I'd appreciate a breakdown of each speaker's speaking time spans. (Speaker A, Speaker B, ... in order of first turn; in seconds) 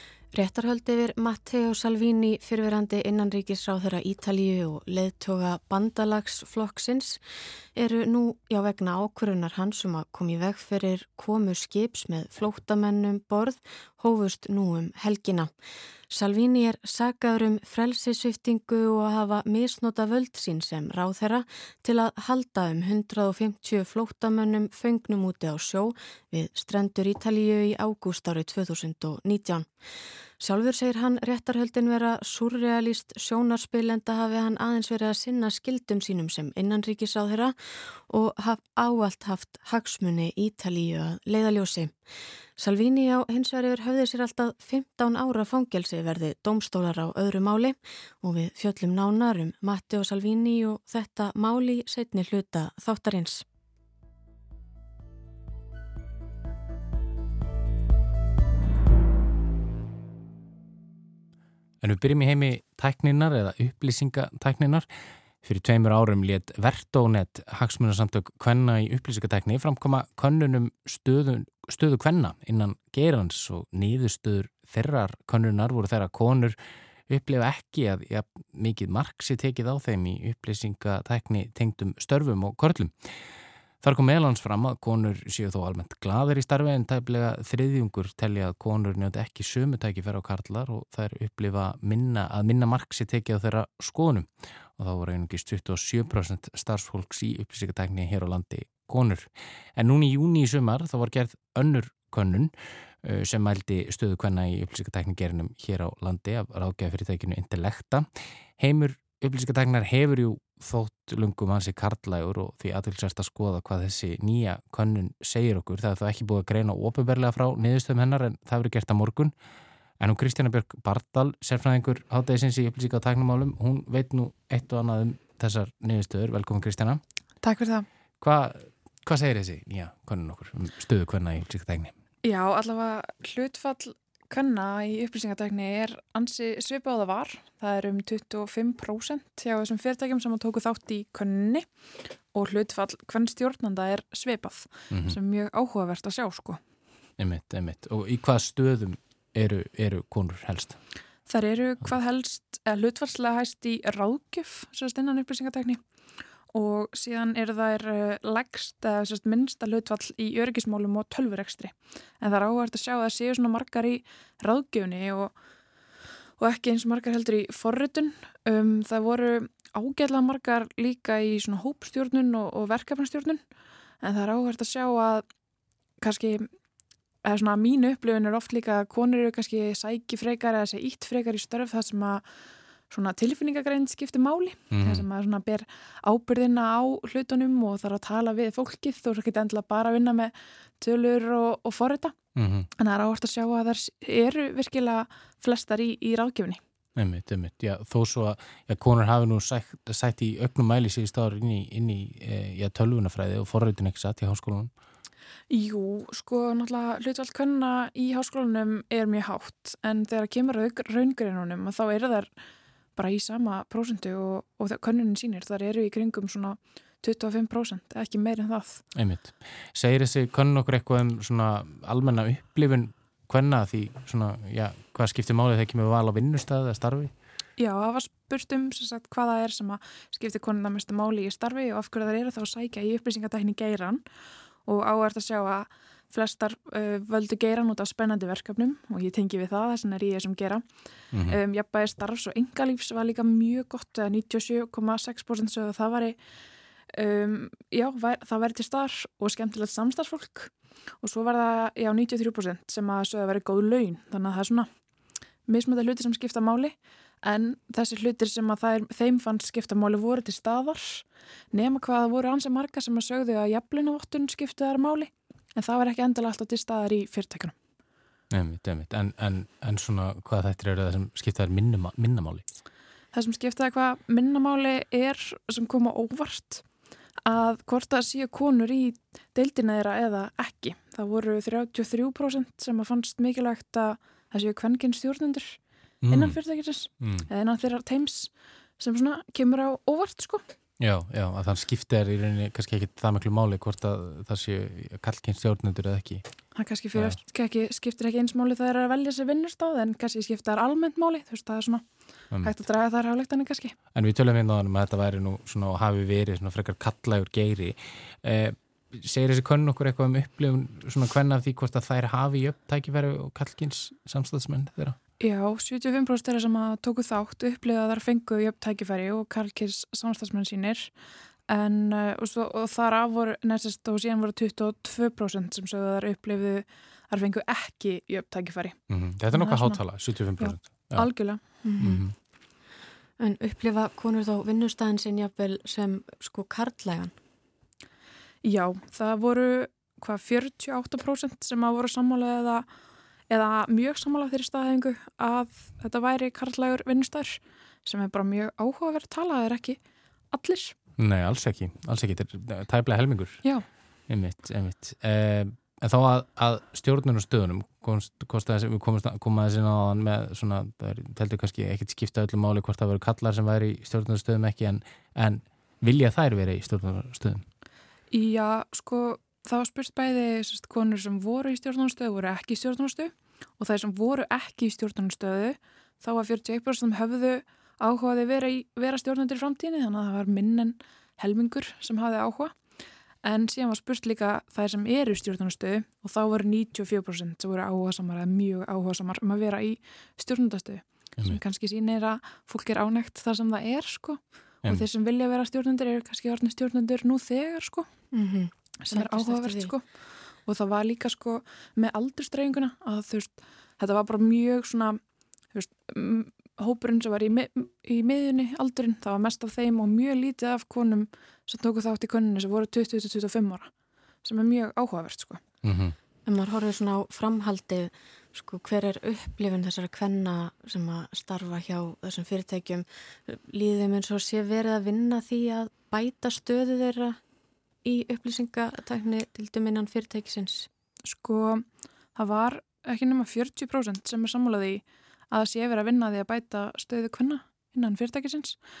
Speaker A: 0.3-7.2, 7.8-15.5, 16.1-29.7, 30.4-37.5, 38.1-41.9, 42.6-53.4, 331.6-332.0, 333.2-337.1, 398.1-399.7, 416.2-427.2, 427.8-430.7
Speaker B: 61.8-64.9, 65.4-76.6, 77.1-83.1, 83.8-102.5, 103.0-119.3, 120.0-127.0, 128.2-131.9, 144.9-145.2, 147.2-150.8, 184.7-185.0, 192.3-192.7, 196.9-204.7, 218.9-227.1, 241.1-241.4, 268.3-272.4, 286.0-286.4, 287.0-287.3, 290.8-296.2, 303.9-315.0, 328.9-331.1, 331.8-332.1, 351.0-353.5, 354.1-367.4, 415.6-415.9
Speaker C: 127.4-127.9, 132.2-141.7, 142.3-146.6, 151.3-155.8, 156.5-165.3, 166.4-173.4, 174.0-175.2, 176.0-176.5, 177.2-182.3, 182.9-192.2, 192.8-196.6, 205.5-212.3, 212.9-218.8, 227.6-234.0, 234.6-240.6, 241.2-246.2, 246.9-254.7, 255.4-267.5, 273.1-276.6, 277.2-285.6, 286.1-290.4, 296.5-301.9, 302.4-303.7, 315.2-320.9, 321.5-328.8, 329.3-329.8, 330.4-331.4, 338.4-342.6, 343.3-349.8, 350.3-350.8, 368.1-382.6, 383.2-397.9, 398.8-405.0, 405.5-413.7, 414.2-415.4, 431.0-438.6